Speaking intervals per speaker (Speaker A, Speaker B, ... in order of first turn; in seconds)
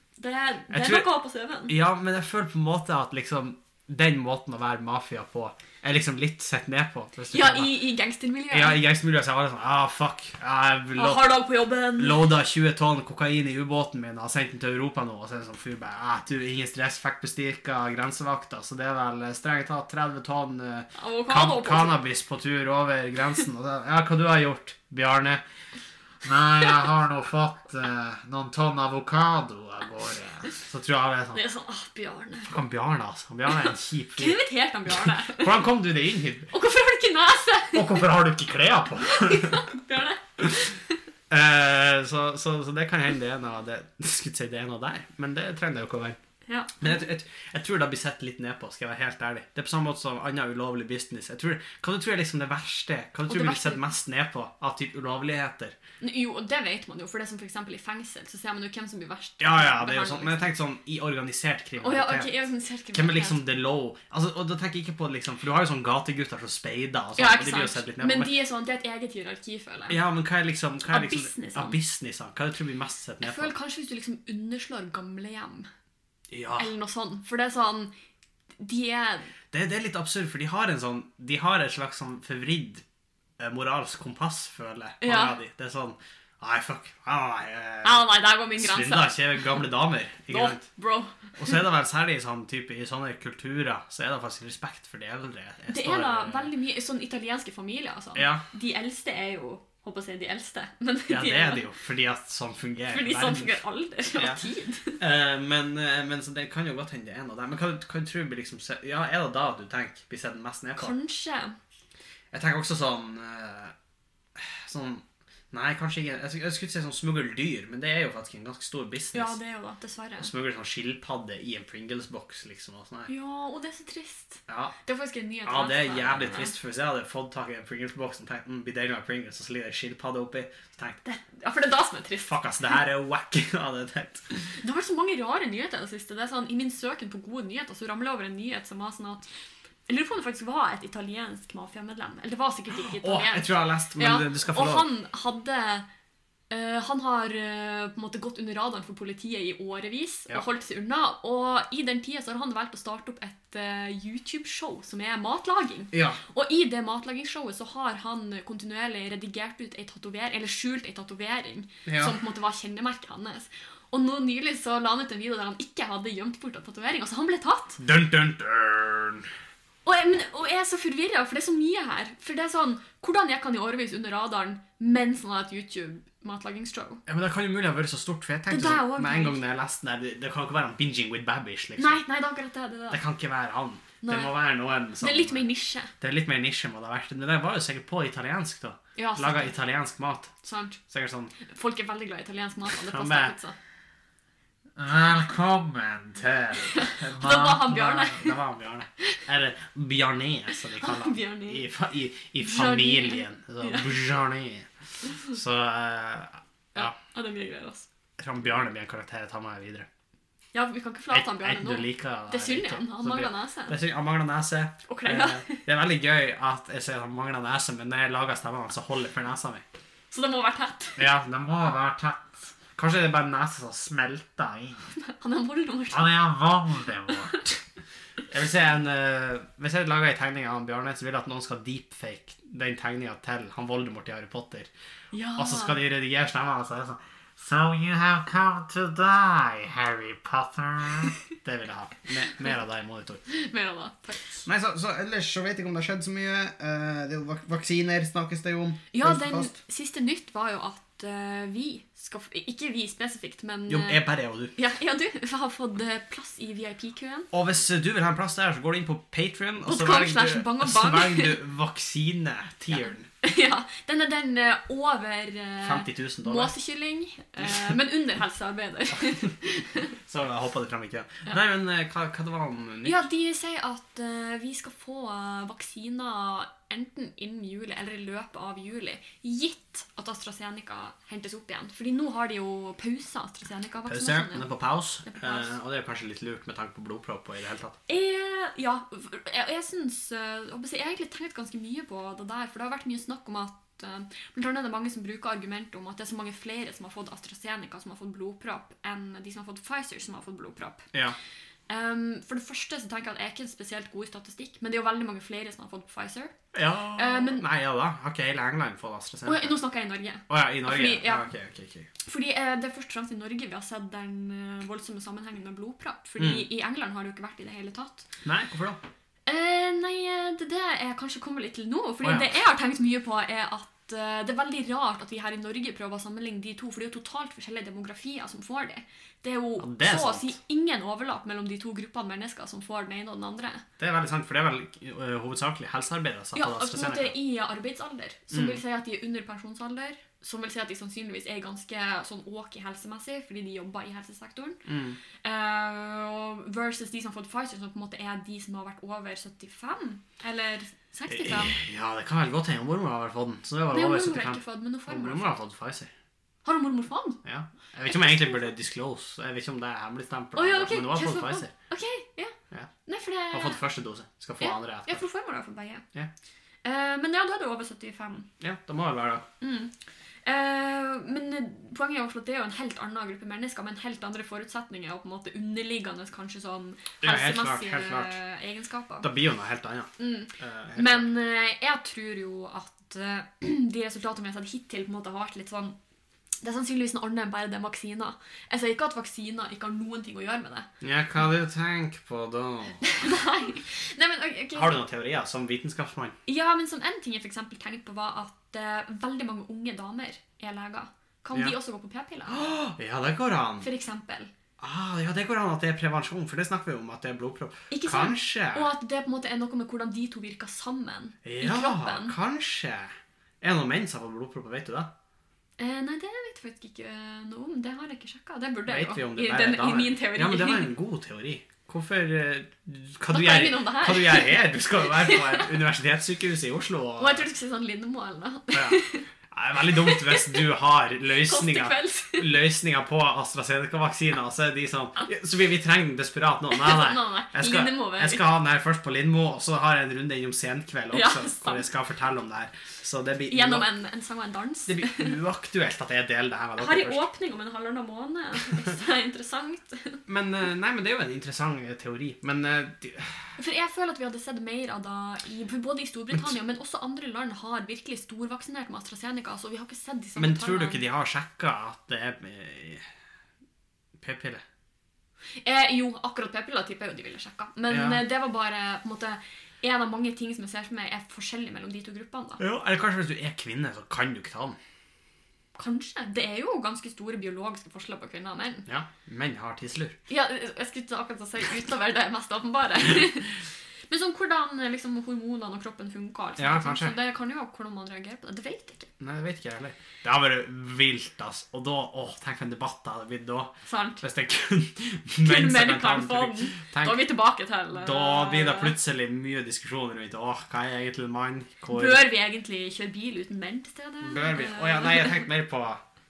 Speaker A: 0.2-1.7, 7.3-8.8, 10.9-12.3, 20.9-22.0, 31.3-32.5, 34.2-35.6, 36.5-38.0, 39.1-41.0, 46.5-46.9, 53.3-53.8, 56.0-60.5, 61.8-63.4, 67.2-70.0, 70.9-71.8, 73.2-75.7, 76.6-77.9, 78.6-79.3, 85.0-85.4, 87.8-89.6, 90.3-91.5, 95.7-101.6, 102.9-105.0, 110.8-111.6, 119.1-120.3, 123.1-126.5, 131.0-132.3, 134.6-139.2, 139.9-145.9, 146.5-167.8, 169.8-177.0, 178.5-179.4, 181.8-183.0, 184.0-184.4, 185.0-185.9, 188.9-189.5, 190.4-190.8, 191.4-193.6, 196.7-198.4, 200.8-201.7, 202.4-203.9, 206.7-207.9, 210.5-213.8, 214.9-215.6, 220.1-221.0, 225.0-226.2, 235.1-235.8, 243.3-244.4, 248.9-254.0, 254.6-257.3, 259.6-261.4, 263.2-269.9, 272.8-284.4, 285.0-285.5, 287.9-300.9, 301.7-306.3, 306.9-307.4, 309.2-311.3, 312.0-318.1, 319.2-333.6, 336.3-344.6, 345.2-351.6, 353.7-355.3, 356.4-357.2, 357.9-358.5, 360.4-362.3, 362.9-363.6, 364.4-365.8, 366.6-368.3, 369.4-369.7, 370.2-379.1, 380.0-385.8, 386.4-390.7, 392.9-394.8, 396.2-402.5, 403.6-404.3, 407.7-412.1, 415.6-420.7, 423.1-425.5, 427.0-429.0, 429.7-430.5, 431.3-432.3, 436.5-438.2, 440.9-441.7, 443.3-445.1, 446.6-450.0, 453.4-460.8, 465.4-472.4, 475.6-478.6, 480.1-488.9, 493.6-494.0, 495.2-498.7, 501.7-505.2
Speaker B: 0.7-1.1, 1.7-7.8, 8.5-11.3, 12.0-25.4, 30.6-31.4, 32.5-34.4, 35.2-36.5, 37.7-39.6, 41.3-46.2, 46.8-55.8, 59.4-62.3, 62.9-68.3, 69.9-73.5, 76.3-76.7, 79.5-82.8, 83.4-90.6, 91.3-96.5, 98.2-98.4, 101.1-103.5, 104.1-104.4, 105.0-110.9, 112.3-113.7, 114.3-119.3, 120.2-123.1, 124.5-124.7, 125.4-131.0, 132.2-134.6, 142.7-144.9, 155.9-156.2, 161.8-162.1, 167.8-169.3, 177.1-182.0, 182.9-185.4, 186.0-190.3, 190.9-191.3, 192.8-193.3, 196.2-206.9, 208.2-209.9, 211.1-219.6, 221.0-221.4, 222.7-224.7, 228.3-234.7, 235.4-237.0, 241.4-243.2, 244.4-249.5, 253.7-254.5, 257.3-263.1, 265.6-266.5, 270.1-273.0, 283.9-287.8, 306.5-309.6, 310.3-311.9, 316.2-316.4, 318.2-318.8, 322.0-322.3, 329.6-330.3, 333.8-337.1, 338.3-338.6, 344.6-345.0, 351.1-355.9, 357.2-361.5, 363.3-365.0, 368.4-369.3, 377.0-378.2, 379.0-381.1, 390.8-393.0, 394.5-396.1, 402.3-403.7, 404.6-408.7, 411.2-414.9, 418.7-427.2, 428.5-443.7, 444.7-447.0, 450.1-453.3, 460.2-462.9, 464.0-464.4, 467.7-468.0, 472.4-474.6, 478.6-479.9, 486.4-486.9, 489.0-497.0, 497.7-502.0, 504.0-505.8
Speaker C: 26.2-30.5, 194.8-198.1, 221.3-222.3, 225.9-227.4, 237.4-241.1